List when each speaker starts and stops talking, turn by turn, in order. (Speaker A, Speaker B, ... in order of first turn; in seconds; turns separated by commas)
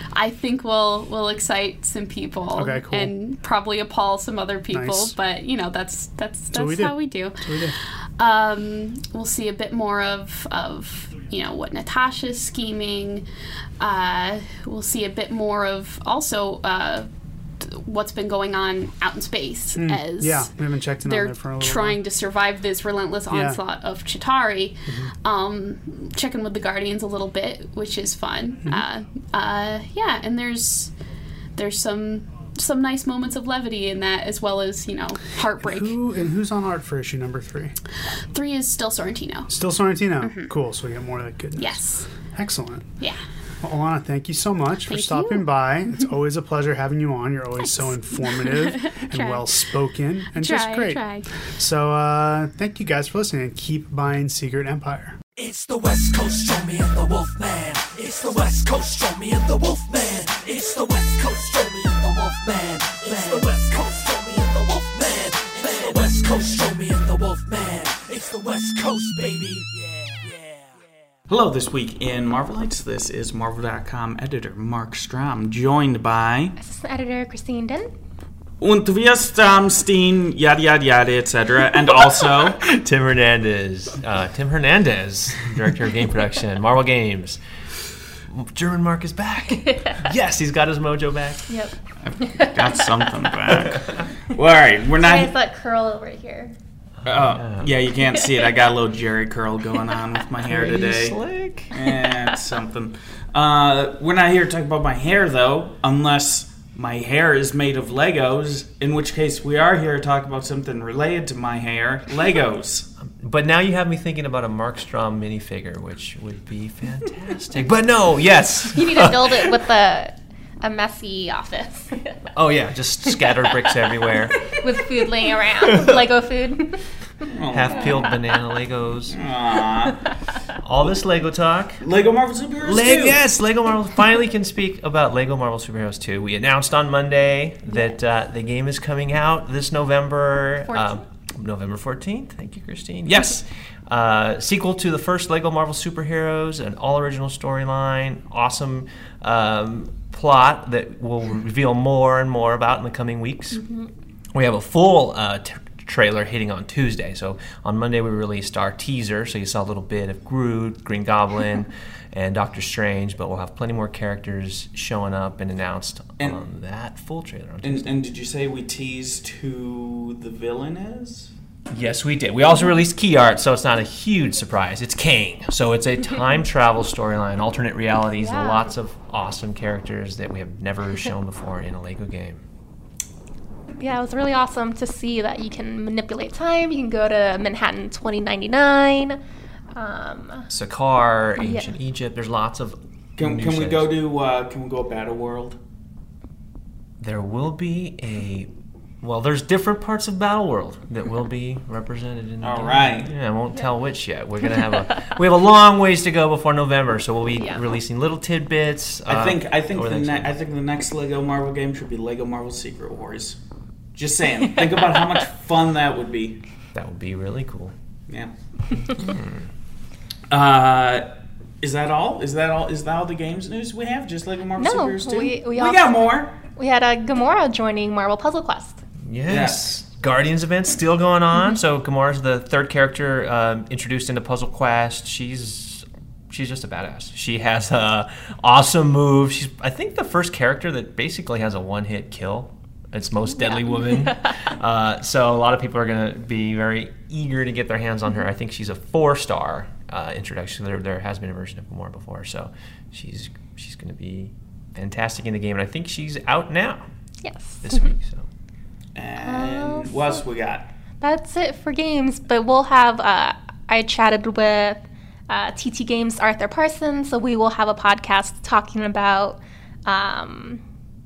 Speaker A: 0.1-7.4, Speaker B: 2.5-3.1, Speaker B: 4.7-5.2, Speaker B: 6.5-7.8, Speaker A: 8.2-13.2, Speaker A: 13.8-17.1, Speaker A: 17.6-20.5, Speaker B: 19.8-22.0, Speaker A: 21.1-30.9, Speaker B: 23.3-23.6, Speaker A: 31.6-36.0, Speaker B: 35.6-37.7, Speaker A: 38.3-39.5, Speaker B: 39.5-42.9, Speaker A: 40.2-40.5, Speaker A: 41.6-42.1, Speaker B: 43.6-55.2, Speaker A: 44.9-45.5, Speaker A: 47.6-49.5, Speaker A: 50.3-51.3, Speaker C: 55.4-70.7, Speaker D: 71.3-76.5, Speaker E: 76.6-77.9, Speaker D: 78.6-82.6, Speaker F: 82.6-87.4, Speaker F: 88.3-91.6, Speaker E: 89.6-90.1, Speaker E: 91.5-93.4, Speaker D: 92.0-95.3, Speaker E: 94.9-96.5, Speaker F: 97.0-97.8, Speaker D: 97.1-101.2, Speaker E: 97.9-98.7, Speaker E: 99.8-100.1, Speaker F: 100.5-101.7, Speaker D: 101.7-112.9, Speaker E: 101.9-102.4, Speaker F: 113.0-119.5, Speaker E: 118.7-122.2, Speaker F: 122.3-124.4, Speaker E: 123.0-126.8, Speaker D: 127.3-128.2, Speaker F: 127.5-129.2, Speaker E: 127.8-128.4, Speaker D: 129.1-130.0, Speaker F: 130.6-131.8, Speaker D: 131.8-133.2, Speaker F: 132.6-153.6, Speaker E: 137.7-138.0, Speaker E: 140.6-141.0, Speaker E: 153.5-153.9, Speaker F: 154.3-168.0, Speaker D: 167.6-171.3, Speaker F: 171.7-182.4, Speaker E: 178.2-178.7, Speaker E: 183.8-189.2, Speaker E: 189.7-190.5, Speaker F: 190.5-193.9, Speaker E: 191.4-191.8, Speaker D: 193.2-195.6, Speaker F: 197.0-210.3, Speaker D: 202.4-203.1, Speaker E: 207.3-207.8, Speaker D: 209.1-213.4, Speaker D: 213.9-216.4, Speaker E: 214.3-215.3, Speaker F: 216.7-217.7, Speaker F: 219.1-219.4, Speaker D: 220.3-221.1, Speaker D: 221.6-226.3, Speaker E: 224.6-225.9, Speaker E: 226.6-228.8, Speaker F: 229.0-256.9, Speaker D: 229.3-229.7, Speaker E: 231.3-231.6, Speaker E: 243.4-244.3, Speaker E: 257.2-257.9, Speaker F: 257.6-258.3, Speaker D: 258.9-260.7, Speaker E: 259.2-260.2, Speaker E: 261.0-270.6